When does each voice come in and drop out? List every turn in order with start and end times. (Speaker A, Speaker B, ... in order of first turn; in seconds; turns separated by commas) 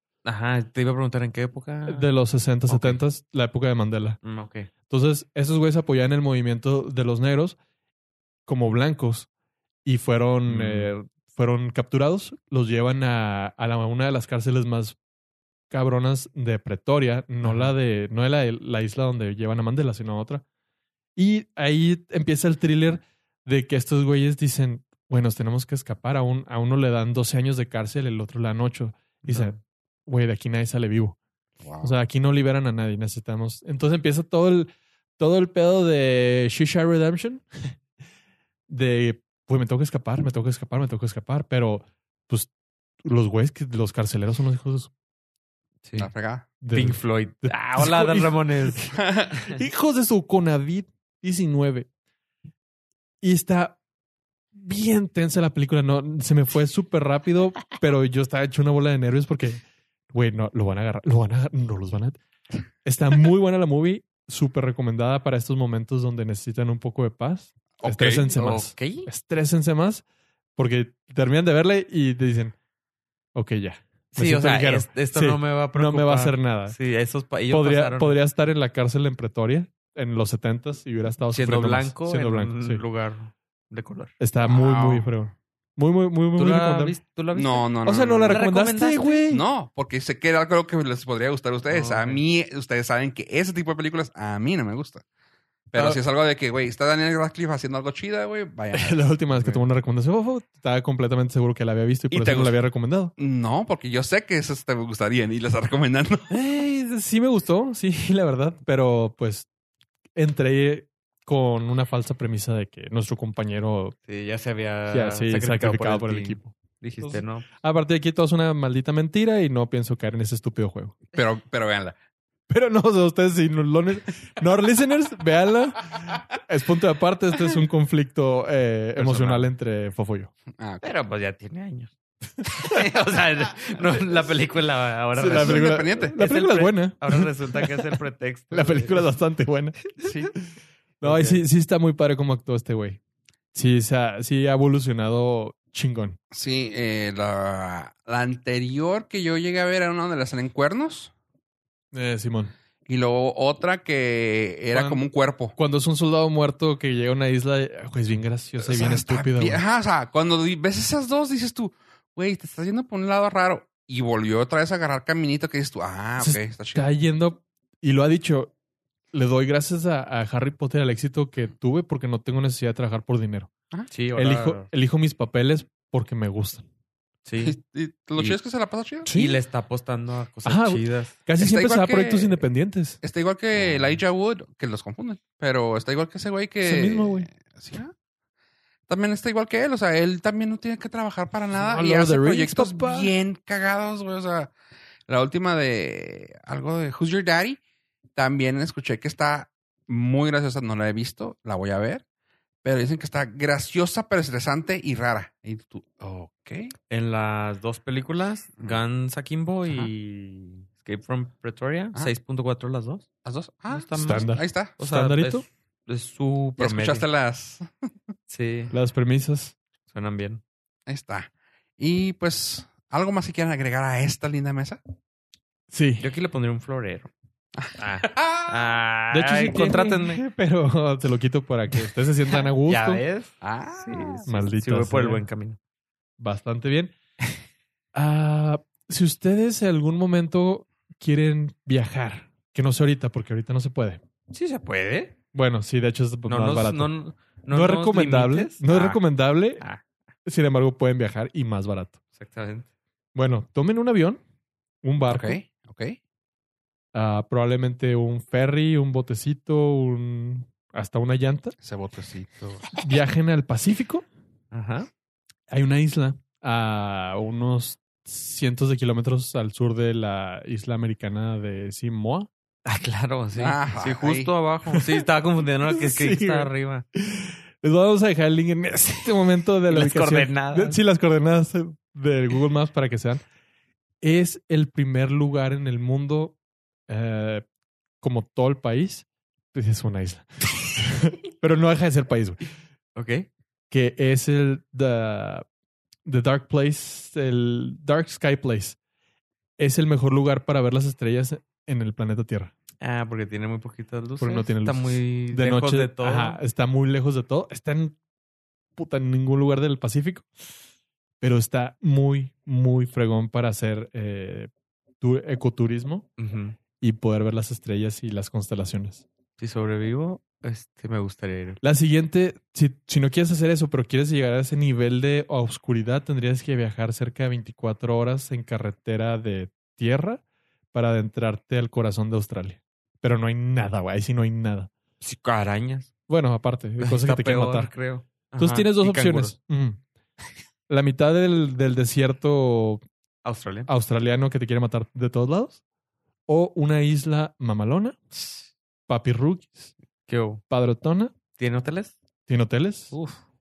Speaker A: 0.2-2.1, Speaker B: 1.9-4.2, Speaker A: 2.7-3.0, Speaker A: 4.2-4.7, Speaker B: 4.9-7.6, Speaker B: 8.5-9.3, Speaker B: 9.8-15.0, Speaker A: 10.4-10.9, Speaker B: 15.7-20.4, Speaker A: 17.4-17.7, Speaker B: 21.1-31.2, Speaker A: 29.2-29.6, Speaker C: 31.6-31.9, Speaker B: 31.8-37.8, Speaker B: 38.7-42.5, Speaker B: 43.0-44.9, Speaker A: 45.8-46.1, Speaker C: 46.0-46.5, Speaker B: 46.6-51.9, Speaker A: 46.7-49.6, Speaker C: 49.0-49.4, Speaker B: 53.2-53.8, Speaker B: 54.5-62.2, Speaker B: 62.8-70.0, Speaker C: 67.8-68.3, Speaker A: 68.3-69.1, Speaker B: 70.6-72.5, Speaker B: 73.3-76.8, Speaker A: 74.2-78.2, Speaker B: 77.5-82.8, Speaker A: 81.3-84.1, Speaker B: 84.2-87.0, Speaker C: 84.4-85.1, Speaker A: 86.3-87.7, Speaker C: 87.3-88.4, Speaker B: 87.8-89.4, Speaker A: 88.3-89.2, Speaker C: 89.3-95.0, Speaker A: 91.7-92.2, Speaker C: 95.7-99.0, Speaker B: 98.7-103.1, Speaker A: 99.3-99.6, Speaker C: 102.1-102.6, Speaker C: 103.2-106.3, Speaker B: 106.3-109.5, Speaker B: 110.1-113.9, Speaker A: 114.0-117.5, Speaker B: 114.9-121.0, Speaker C: 121.1-121.9, Speaker B: 122.5-130.3, Speaker A: 128.9-129.4, Speaker C: 130.6-130.8, Speaker A: 130.8-139.1, Speaker B: 135.1-137.9, Speaker C: 135.2-136.2, Speaker B: 138.5-139.9, Speaker C: 140.0-140.3, Speaker A: 141.0-141.4, Speaker B: 141.0-143.0, Speaker B: 143.5-146.2, Speaker C: 146.3-151.1, Speaker B: 151.9-152.5, Speaker C: 152.9-155.5, Speaker B: 154.7-155.0, Speaker B: 155.5-159.6, Speaker C: 158.6-166.9, Speaker B: 166.2-168.5, Speaker B: 169.1-173.5, Speaker A: 173.9-174.7, Speaker B: 174.1-176.6, Speaker A: 177.2-177.6, Speaker C: 177.4-179.1, Speaker B: 179.0-179.4, Speaker A: 179.1-181.2, Speaker B: 180.4-183.0, Speaker C: 181.4-182.4, Speaker C: 183.0-187.9, Speaker A: 183.6-183.9, Speaker B: 186.6-187.3, Speaker C: 188.9-194.5, Speaker B: 191.5-193.1, Speaker C: 195.1-197.6, Speaker C: 198.2-202.0, Speaker C: 202.6-206.7, Speaker A: 206.9-213.1, Speaker C: 213.2-214.8, Speaker A: 213.7-217.1, Speaker B: 214.0-215.4, Speaker C: 216.6-217.8, Speaker A: 218.3-218.7, Speaker B: 218.7-219.6, Speaker A: 219.9-220.4, Speaker C: 220.9-224.8, Speaker B: 225.7-226.1, Speaker A: 226.0-227.1, Speaker C: 227.6-228.5, Speaker A: 227.8-230.2, Speaker B: 229.1-233.0, Speaker A: 232.3-235.6, Speaker C: 233.4-234.2, Speaker B: 234.3-235.2, Speaker B: 236.2-236.9, Speaker B: 237.9-244.0, Speaker A: 244.3-245.2, Speaker B: 245.3-246.9, Speaker A: 246.3-249.0, Speaker B: 247.5-249.6, Speaker A: 249.6-249.8, Speaker B: 250.2-252.0, Speaker A: 252.2-252.7, Speaker B: 253.1-254.2, Speaker B: 254.8-255.4, Speaker C: 255.1-256.0, Speaker B: 256.9-261.5, Speaker C: 261.6-262.7, Speaker B: 262.8-264.0, Speaker A: 264.5-264.9, Speaker B: 265.5-272.3, Speaker A: 272.6-276.8, Speaker C: 273.3-274.3, Speaker B: 274.7-275.1, Speaker B: 275.7-283.2, Speaker A: 279.7-280.8, Speaker B: 284.0-286.4, Speaker B: 286.9-287.4, Speaker B: 288.0-292.4, Speaker A: 292.9-293.3, Speaker B: 293.7-295.4, Speaker B: 296.0-298.8, Speaker B: 299.6-302.5, Speaker A: 302.8-306.4, Speaker B: 304.2-308.0, Speaker B: 308.8-310.2, Speaker B: 311.2-316.1, Speaker A: 316.2-316.6, Speaker B: 316.8-319.0, Speaker A: 319.4-321.6, Speaker B: 321.6-334.7, Speaker A: 335.0-335.9, Speaker B: 336.1-337.7, Speaker A: 336.8-339.3, Speaker B: 338.4-339.8, Speaker B: 340.7-342.8, Speaker A: 343.2-343.7, Speaker B: 343.7-345.6, Speaker B: 346.3-348.0, Speaker A: 348.1-348.4, Speaker B: 348.9-349.7, Speaker A: 350.1-350.4, Speaker B: 350.5-351.1, Speaker A: 351.4-352.0, Speaker B: 352.3-352.9, Speaker A: 352.9-353.2